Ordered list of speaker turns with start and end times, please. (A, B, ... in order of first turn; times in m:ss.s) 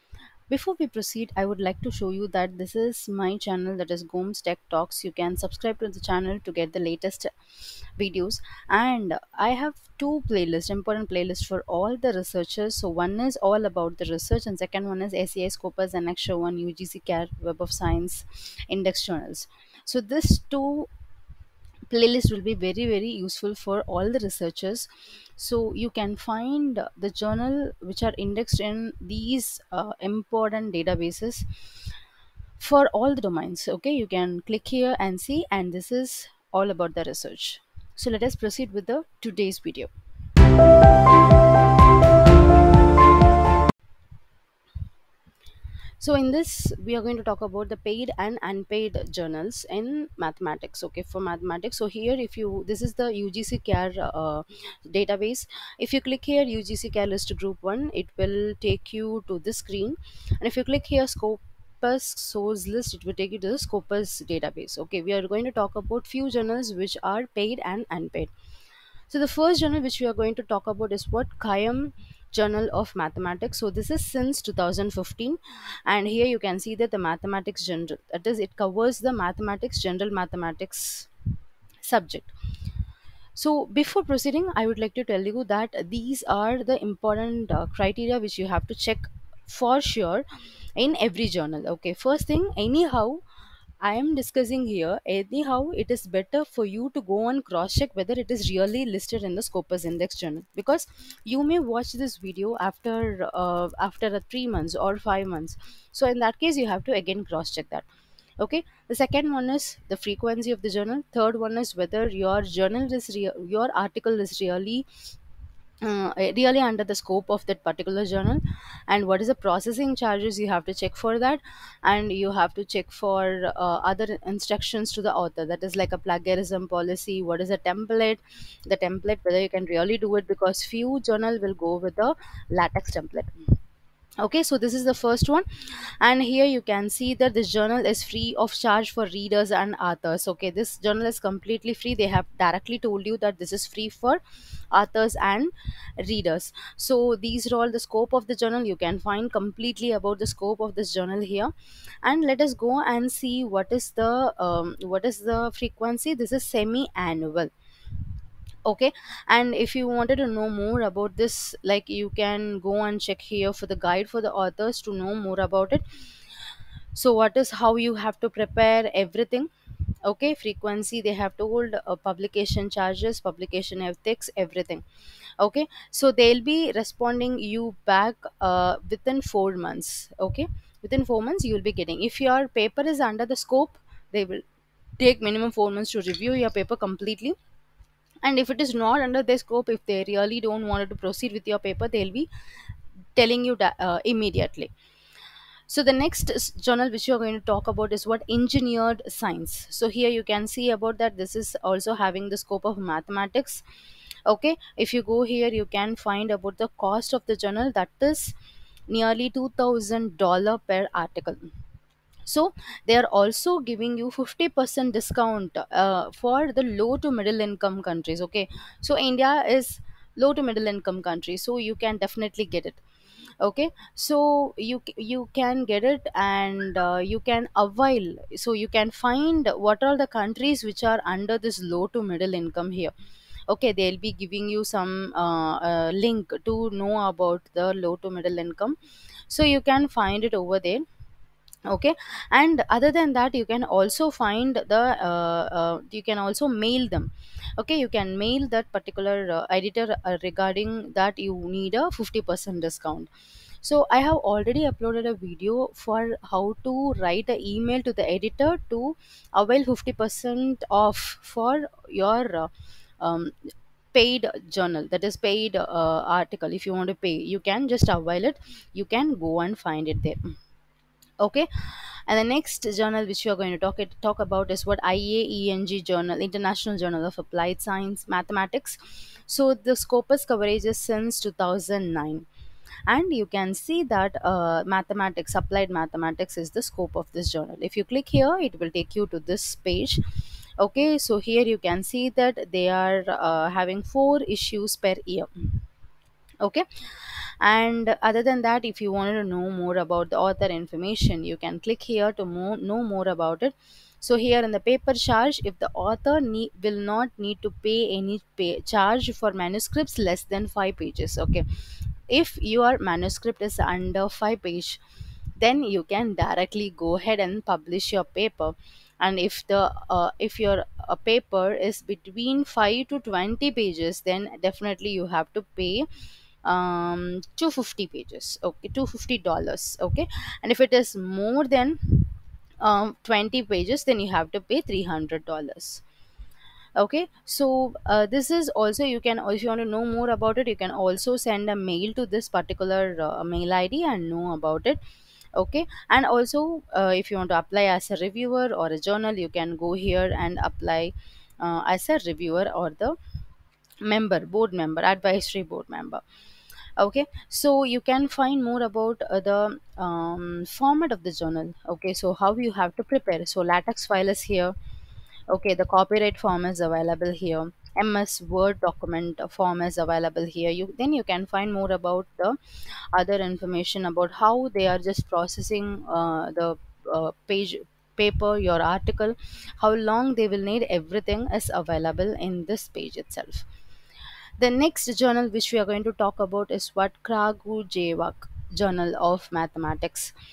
0:00.5-0:07.3 A
0:08.0-0:20.9 A
0:21.9-0:31.5 A
0:32.6-0:39.9 A
0:46.0-1:08.3 A
1:09.1-1:21.1 A
1:21.8-1:22.3 A
1:23.4-1:30.3 A
1:30.8-1:33.2 A
1:33.8-1:47.9 A
1:48.4-1:54.9 A
1:55.8-2:13.3 A
2:14.2-2:37.5 A
2:38.7-2:45.8 A
2:46.9-2:49.5 A
2:50.0-2:54.8 A
2:55.4-3:04.4 A
3:05.0-3:07.4 A
3:08.2-3:12.3 A
3:13.2-3:14.7 A
3:15.7-3:23.6 A
3:24.2-3:28.3 A
3:28.9-3:31.4 A
3:32.2-3:42.8 A
3:43.4-3:52.9 A
3:53.5-3:58.8 A
3:59.3-4:00.8 A
4:01.7-4:13.1 A
4:13.6-4:23.3 A
4:23.9-4:30.3 A
4:31.2-4:31.5 A
4:32.1-4:42.2 A
4:42.9-4:50.0 A
4:50.6-4:55.6 A
4:57.4-5:11.4 A
5:12.1-5:14.8 A
5:15.4-5:25.9 A
5:26.4-5:35.8 A
5:36.8-5:44.8 A
5:45.4-5:53.0 A
5:53.8-5:56.0 A
5:56.8-6:04.5 A
6:05.3-6:12.4 A
6:12.9-6:23.4 A
6:24.4-6:30.1 A